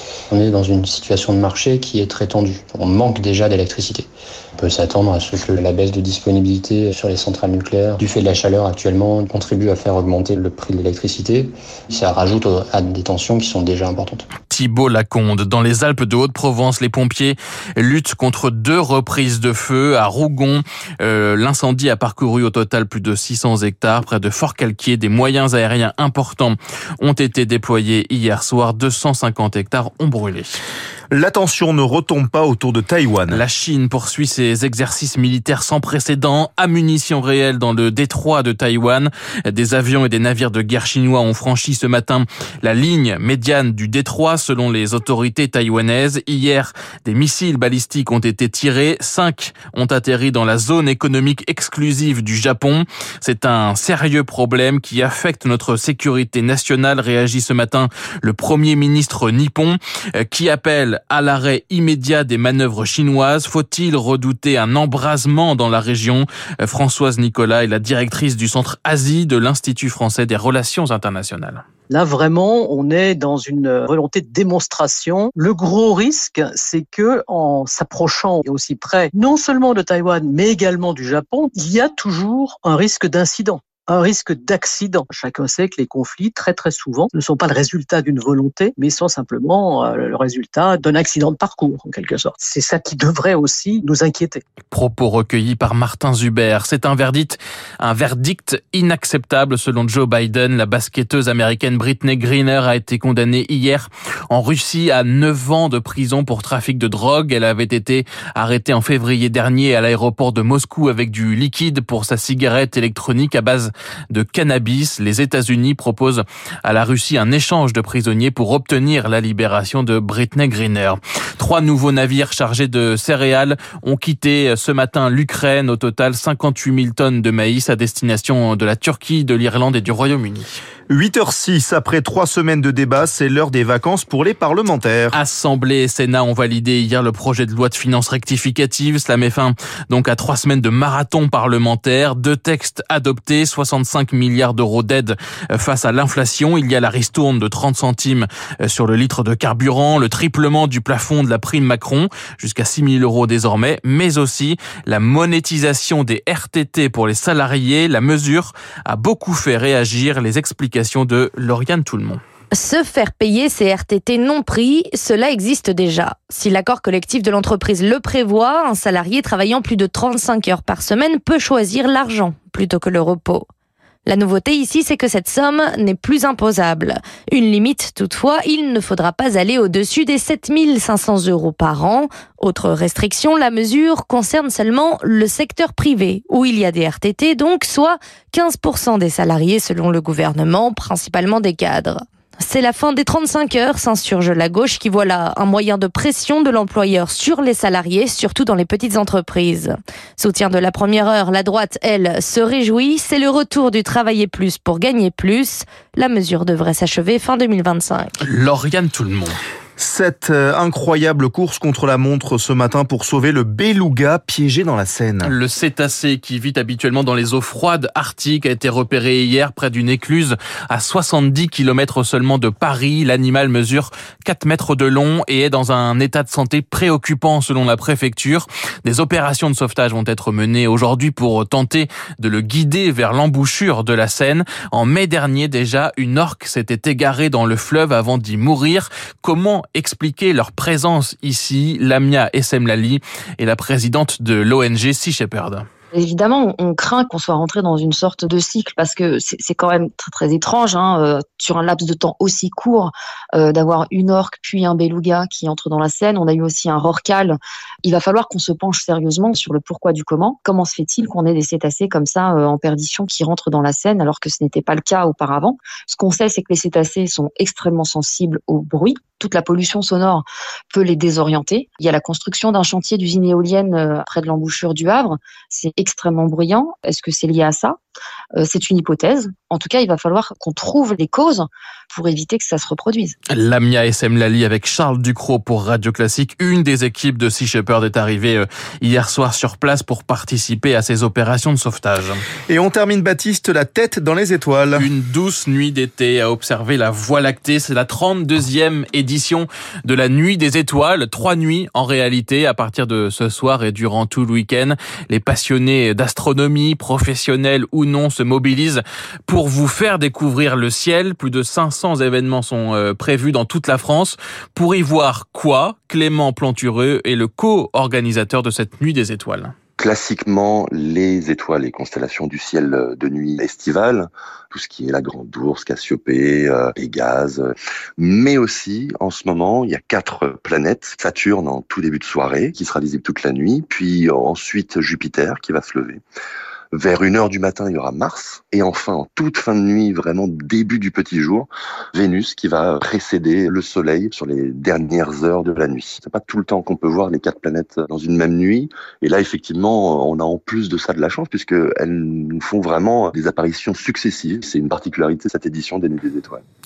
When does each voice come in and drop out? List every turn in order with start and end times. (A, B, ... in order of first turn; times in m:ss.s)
0:00.3-0:14.2 A
0:14.5-0:30.6 B
0:31.1-0:33.4 C
0:33.3-1:11.6 B
1:11.9-1:34.4 D
1:34.7-2:10.6 B
2:10.9-2:15.2 C
2:15.1-2:42.2 B
2:42.5-2:53.5 E
2:54.0-3:28.2 E
3:28.2-3:29.4 B
3:29.8-3:35.3 C
3:35.2-4:05.6 B
4:05.9-4:37.8 F
4:38.4-4:43.1 F
4:43.3-4:52.2 B
4:52.5-4:54.9 C
4:54.7-5:19.5 B
5:19.8-5:36.0 G
5:36.7-5:56.4 G